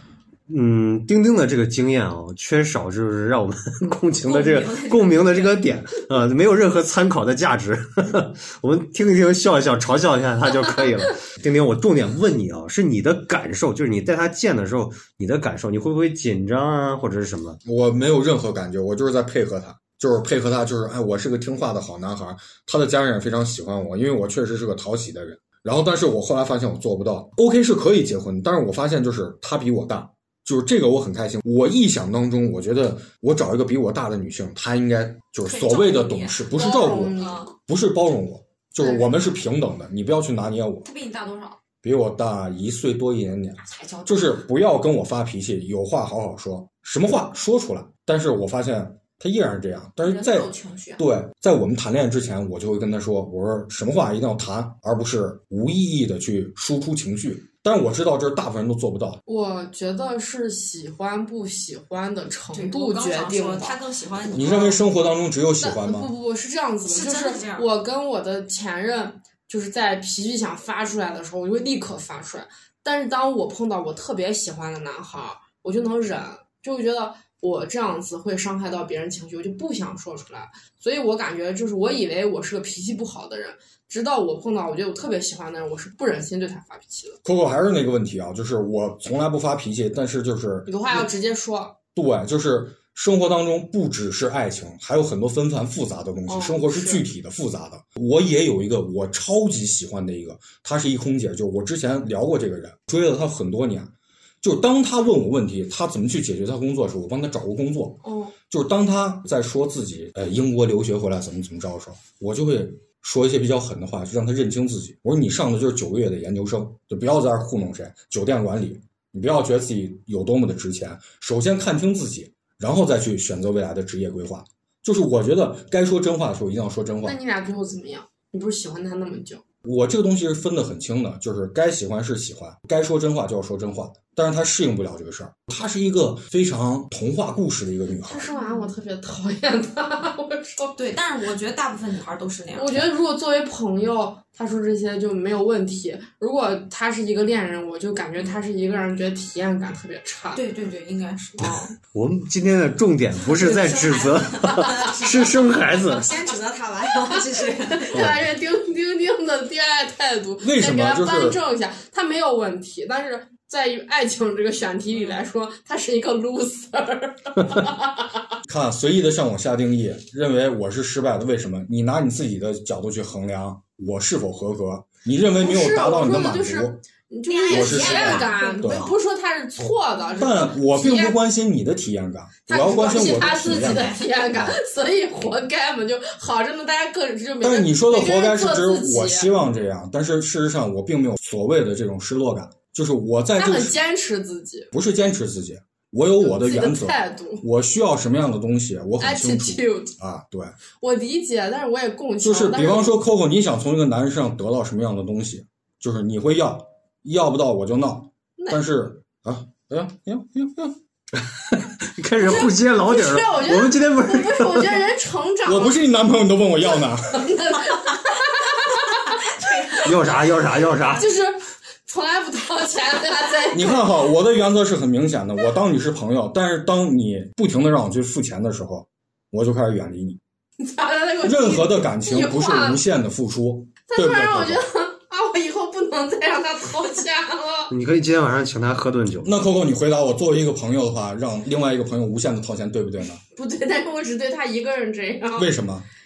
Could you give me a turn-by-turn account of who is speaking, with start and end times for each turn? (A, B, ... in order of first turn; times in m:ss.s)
0:00.5-0:17.6 A
0:04.2-0:05.6 B
0:17.6-0:40.9 C
0:35.4-0:37.5 B
0:36.6-0:37.4 D
0:40.8-0:41.6 B
0:41.8-0:59.2 C
0:43.6-0:44.4 B
0:50.0-0:51.0 B
0:59.2-1:03.8 D
1:02.5-1:04.8 B
1:04.3-1:06.1 C
1:05.6-1:27.2 D
1:06.8-1:07.7 B
1:27.2-1:31.1 C
1:30.7-1:31.8 D
1:31.9-2:07.2 C
1:36.3-1:37.0 D
1:48.0-1:48.3 D
2:07.0-2:09.4 D
2:09.6-2:18.3 C
2:18.1-2:20.8 D
2:18.3-2:18.7 B
2:20.8-2:22.8 B
2:22.5-2:30.4 D
2:30.3-2:31.7 B
2:31.9-2:36.1 A
2:33.2-2:38.1 B
2:34.6-2:34.9 D
2:37.1-2:48.4 D
2:37.9-2:38.2 A
2:40.4-2:41.4 C
2:48.4-2:56.8 C
2:55.4-3:01.2 D
2:57.3-2:59.0 B
2:57.5-2:58.9 C
3:00.2-3:04.6 C
3:02.5-3:09.3 D
3:02.7-3:04.0 B
3:07.4-3:13.8 C
3:13.4-3:14.7 D
3:14.7-3:20.5 C
3:16.2-3:17.4 D
3:19.0-3:19.9 D
3:20.8-3:23.0 D
3:22.2-3:30.8 C
3:28.4-3:28.6 D
3:31.8-3:34.8 A
3:32.2-3:35.8 D
3:35.4-3:37.3 C
3:37.1-3:39.9 D
3:39.4-3:40.1 B
3:39.8-3:41.1 A
3:40.9-3:43.9 D
3:43.5-3:50.2 C
3:50.6-3:52.8 D
3:51.2-3:54.6 C
3:53.9-3:57.7 D
3:57.7-3:59.4 A
3:59.2-4:03.2 C
4:03.3-4:05.5 D
4:05.4-4:05.9 C